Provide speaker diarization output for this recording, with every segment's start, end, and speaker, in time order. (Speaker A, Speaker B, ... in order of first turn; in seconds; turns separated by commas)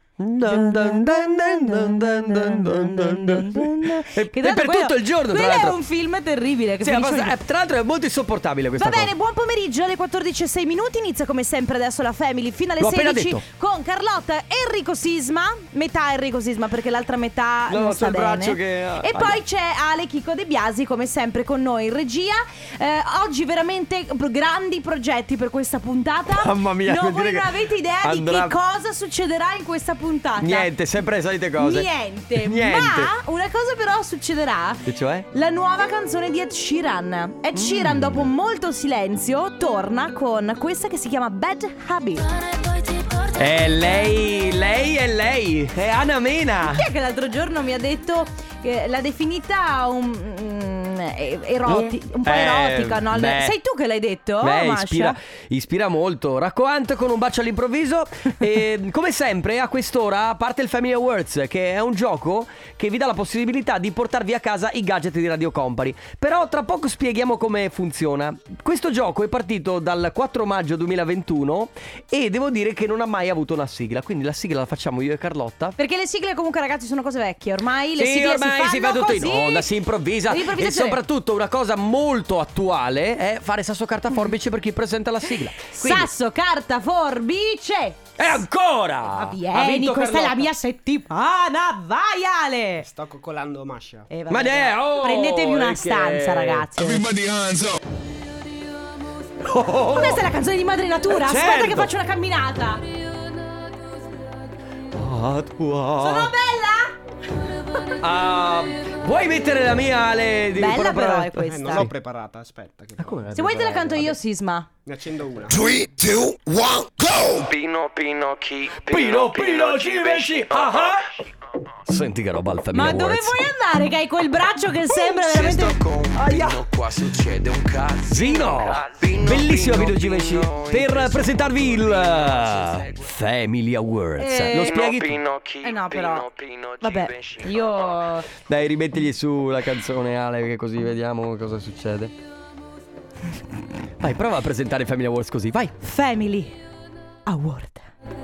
Speaker A: 0.2-5.8, Speaker B: 0.4-7.4, Speaker A: 6.8-9.1, Speaker B: 8.8-30.7, Speaker A: 12.8-13.4, Speaker A: 17.7-19.4, Speaker A: 26.3-28.6, Speaker A: 30.4-33.1, Speaker B: 31.6-42.3, Speaker A: 34.9-35.3, Speaker A: 37.5-38.3, Speaker A: 43.3-46.9, Speaker B: 46.6-55.2, Speaker A: 51.6-53.6, Speaker A: 54.4-75.8, Speaker B: 75.8-79.7, Speaker A: 78.0-86.1, Speaker B: 80.3-81.0, Speaker B: 85.7-88.3, Speaker A: 88.2-90.5, Speaker B: 89.1-92.9, Speaker C: 92.8-94.1, Speaker B: 94.1-97.3, Speaker A: 94.3-97.8, Speaker A: 99.4-100.3, Speaker B: 99.9-102.8, Speaker A: 101.1-101.9, Speaker A: 104.9-106.3, Speaker B: 106.0-107.0, Speaker A: 108.0-111.9, Speaker B: 110.5-111.9, Speaker C: 111.5-114.2, Speaker A: 113.0-113.4, Speaker B: 113.3-114.7, Speaker C: 114.9-116.0, Speaker D: 117.0-121.3, Speaker A: 118.8-121.1, Speaker A: 121.8-123.4, Speaker B: 122.7-125.8, Speaker D: 125.0-133.1, Speaker A: 126.1-126.7, Speaker A: 128.1-135.2, Speaker B: 134.2-134.8, Speaker D: 134.5-138.0, Speaker B: 135.6-136.2, Speaker B: 136.8-138.3, Speaker A: 138.5-142.1, Speaker A: 144.0-145.7, Speaker B: 145.8-146.6, Speaker B: 147.3-147.9